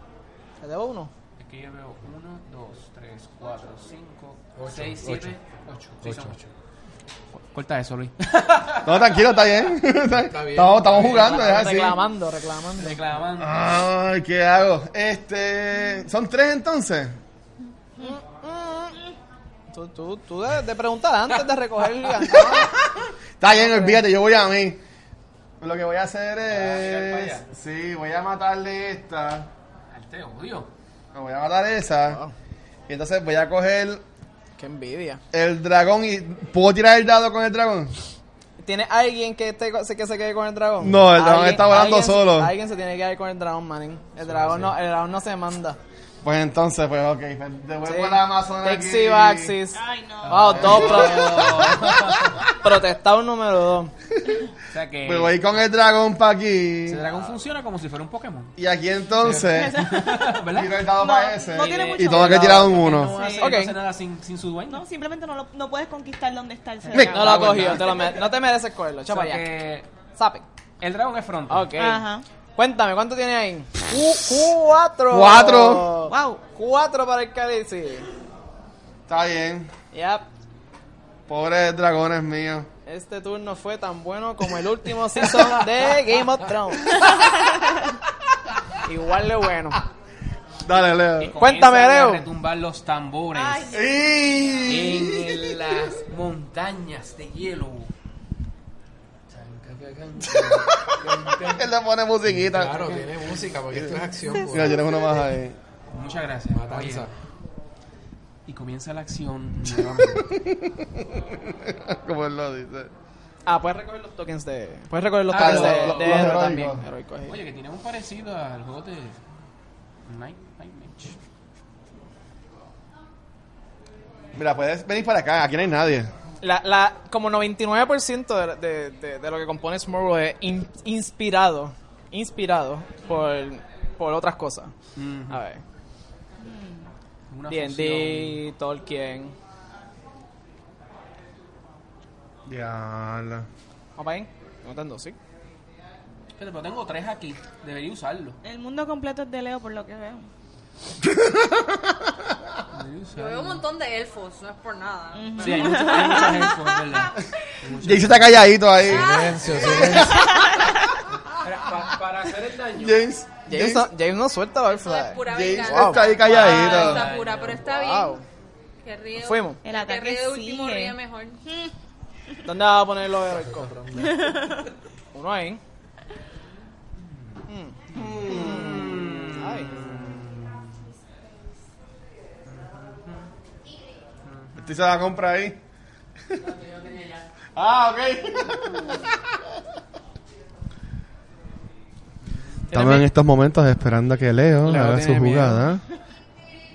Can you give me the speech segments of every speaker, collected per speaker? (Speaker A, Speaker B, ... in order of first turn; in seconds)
Speaker A: 0.6-1.1, 11.0-13.0, 18.0-19.0, 19.7-22.9, 23.5-24.0, 32.0-32.3, 34.6-35.2, 38.6-45.8, 47.9-51.7, 52.6-53.9, 61.6-62.7, 63.4-63.8, 67.1-69.5, 70.2-70.4, 71.5-78.1, 79.9-80.3, 82.8-87.1, 88.8-89.8, 91.4-92.2, 113.5-117.3, 126.4-134.7, 135.3-135.6, 137.5-139.3, 144.0-145.2, 163.5-166.9, 167.6-168.2, 169.2-169.6, 172.4-173.8, 175.1-175.6, 177.5-180.0, 192.7-193.1, 194.6-195.8
Speaker B: 1.4-6.5, 7.3-9.1, 10.9-11.6, 12.8-13.7, 26.4-27.5, 29.9-30.7, 50.2-52.4, 54.7-55.4, 56.9-58.5, 59.7-60.8, 61.6-64.8, 67.0-68.1, 69.1-69.9, 70.8-71.7, 90.7-93.7, 94.7-97.9, 99.3-101.6, 105.9-107.1, 108.5-110.3, 115.3-116.4, 117.3-119.2, 120.0-121.2, 134.9-135.4, 137.3-138.4, 146.4-148.4, 152.7-153.6, 155.4-158.5, 161.3-163.0, 166.2-167.7, 177.0-180.8, 182.4-183.3, 184.2-184.8
Speaker C: 4.5-5.3, 6.0-6.4, 10.2-11.4, 44.2-44.8, 102.2-104.9, 106.5-107.1, 158.8-160.2, 173.3-174.4
Speaker D: 8.8-12.0, 13.4-17.2, 22.3-24.8, 25.6-29.5, 31.1-32.2, 32.9-34.0, 35.3-37.9, 40.8-42.5, 46.2-49.5, 50.6-52.5, 55.0-57.0, 58.6-59.8, 60.5-63.1, 66.9-67.2, 75.1-75.9, 79.1-79.7, 81.3-82.7, 90.7-91.3, 93.7-95.4, 100.3-103.0, 103.7-105.6, 110.1-112.9, 115.3-116.8, 124.3-126.1, 142.5-143.4, 151.0-151.9, 157.8-161.0, 162.8-163.8, 165.2-167.0, 177.9-178.7, 184.6-185.6, 187.5-189.2, 192.7-195.8
Speaker E: 49.7-50.6, 59.3-60.3, 60.9-63.6, 64.7-68.2, 71.8-72.2, 76.0-76.4, 93.3-94.7, 136.4-136.9, 148.4-150.3, 155.1-156.6, 159.9-160.7, 169.6-171.7, 173.9-174.6
Speaker F: 153.1-156.3, 164.7-168.2, 168.8-171.4